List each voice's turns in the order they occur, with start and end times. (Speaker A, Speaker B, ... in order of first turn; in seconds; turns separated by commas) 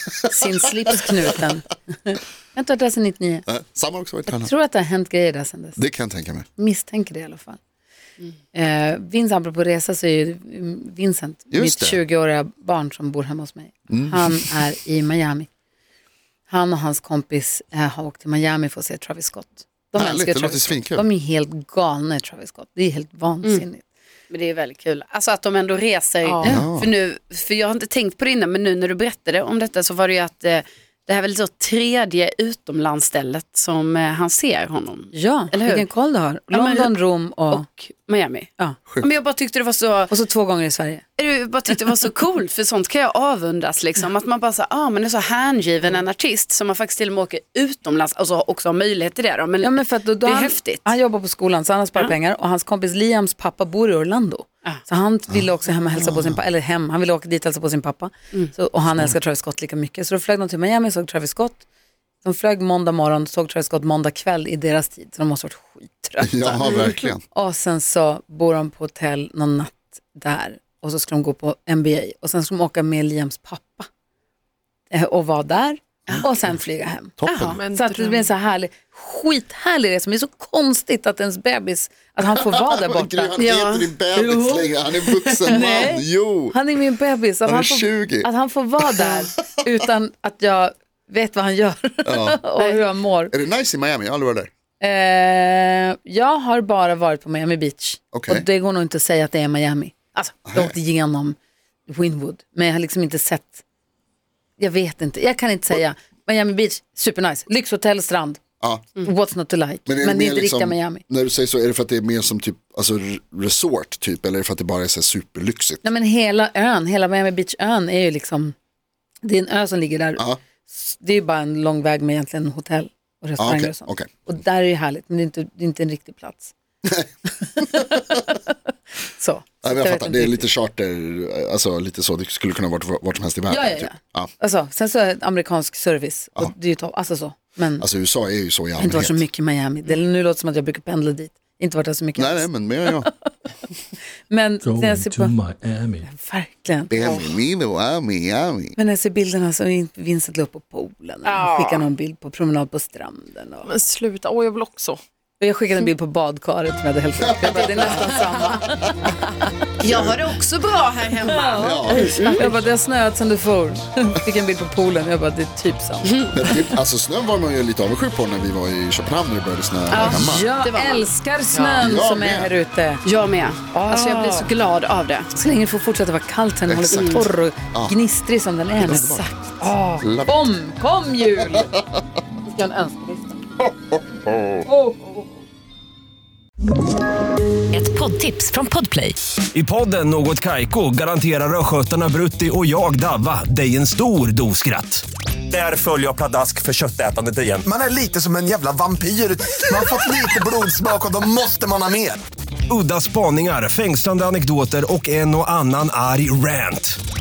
Speaker A: 0.2-3.5, Speaker B: 3.5-4.5, Speaker A: 4.3-5.8, Speaker B: 5.8-6.5, Speaker A: 6.6-7.6, Speaker A: 8.5-15.5, Speaker B: 11.5-12.0, Speaker B: 13.9-14.4, Speaker A: 16.5-23.8, Speaker B: 19.9-21.0, Speaker C: 24.3-35.9, Speaker A: 26.2-26.6, Speaker B: 26.4-26.9, Speaker A: 35.1-37.6, Speaker C: 36.5-37.0, Speaker C: 37.5-38.5, Speaker C: 39.0-40.1, Speaker A: 40.1-41.0, Speaker C: 41.2-50.9, Speaker A: 49.6-61.6, Speaker B: 55.3-56.4, Speaker A: 62.2-66.6, Speaker B: 66.2-67.2, Speaker C: 66.6-67.0, Speaker A: 67.3-73.9, Speaker A: 74.9-83.5, Speaker B: 77.2-77.6, Speaker C: 77.3-77.5, Speaker D: 77.4-78.3, Speaker B: 82.6-86.6, Speaker C: 83.4-83.9, Speaker A: 84.1-93.3, Speaker B: 87.5-88.3, Speaker B: 92.0-92.4, Speaker B: 93.3-94.5, Speaker A: 94.8-101.4, Speaker B: 98.1-98.5, Speaker B: 100.5-100.7, Speaker A: 101.9-103.6, Speaker A: 104.6-108.4, Speaker A: 109.0-111.0, Speaker B: 109.9-115.8, Speaker A: 115.8-118.5, Speaker A: 119.2-126.5, Speaker B: 123.4-124.1, Speaker A: 127.6-128.5, Speaker B: 127.6-128.0, Speaker A: 129.1-130.5, Speaker B: 129.6-134.3, Speaker A: 133.5-137.8, Speaker B: 137.8-139.2, Speaker A: 138.8-142.9, Speaker B: 142.2-143.1, Speaker A: 144.3-145.3, Speaker E: 144.7-146.0, Speaker A: 146.0-147.2, Speaker B: 146.9-148.8, Speaker A: 148.8-153.7, Speaker C: 151.2-151.9, Speaker D: 153.6-155.0, Speaker A: 155.4-159.5, Speaker B: 157.2-158.6, Speaker C: 159.8-162.5, Speaker B: 159.8-160.1, Speaker A: 161.3-166.2, Speaker B: 161.6-162.1, Speaker D: 161.9-162.7, Speaker C: 166.0-166.5, Speaker B: 166.3-170.4, Speaker C: 169.9-171.1, Speaker A: 170.0-173.0, Speaker D: 171.5-171.9, Speaker B: 171.8-172.5, Speaker C: 173.0-175.3, Speaker A: 173.7-174.5, Speaker A: 175.3-181.7, Speaker B: 176.7-177.9, Speaker C: 176.9-177.3, Speaker B: 178.7-179.3, Speaker B: 180.0-180.5, Speaker A: 182.4-183.4, Speaker B: 183.6-184.7, Speaker A: 184.6-185.3, Speaker A: 187.9-189.1, Speaker E: 189.5-197.6, Speaker F: 197.6-202.2, Speaker E: 202.7-207.0